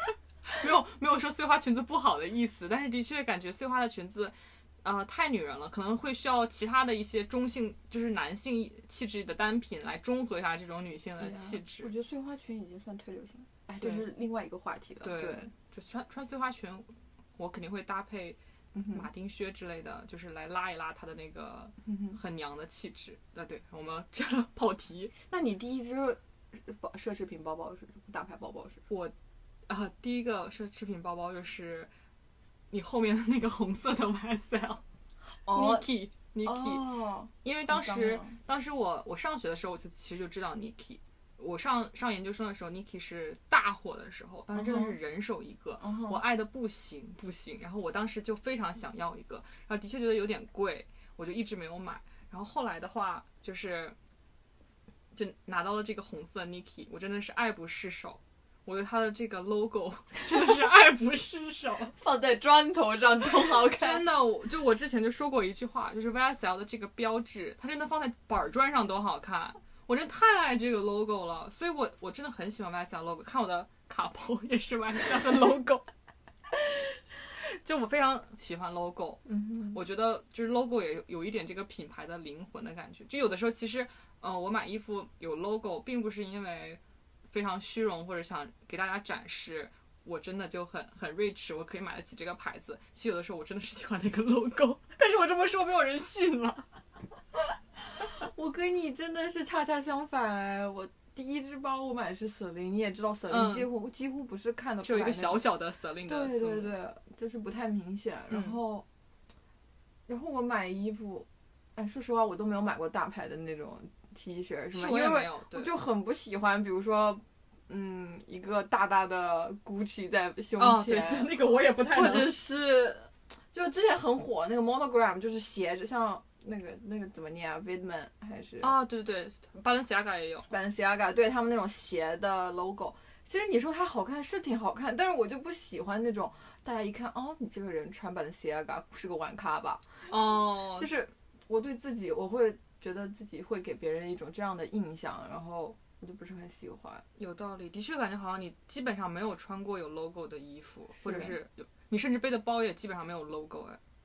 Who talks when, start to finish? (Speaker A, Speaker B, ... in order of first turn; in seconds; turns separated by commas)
Speaker A: 0.4-11.9, Speaker B: 11.2-15.5, Speaker A: 13.8-14.1, Speaker A: 15.0-18.4, Speaker B: 18.7-19.1, Speaker A: 18.9-25.1, Speaker B: 21.9-22.2, Speaker B: 25.3-28.8, Speaker A: 28.9-29.1, Speaker A: 29.7-31.9, Speaker A: 32.7-34.8, Speaker B: 35.4-35.9, Speaker A: 35.5-54.0, Speaker B: 36.4-38.4, Speaker B: 44.5-45.0, Speaker B: 45.8-46.2, Speaker A: 55.1-61.9, Speaker B: 61.9-64.0, Speaker A: 63.6-75.8, Speaker A: 77.3-96.7, Speaker B: 79.3-79.8, Speaker B: 98.0-105.4, Speaker A: 103.3-103.7, Speaker A: 104.8-106.7, Speaker B: 106.0-108.8, Speaker A: 108.3-108.6, Speaker B: 110.1-128.7, Speaker A: 114.7-115.7, Speaker A: 120.6-122.3, Speaker A: 128.6-130.5, Speaker B: 130.5-147.0, Speaker A: 140.1-140.9, Speaker A: 147.2-153.8, Speaker B: 151.0-151.4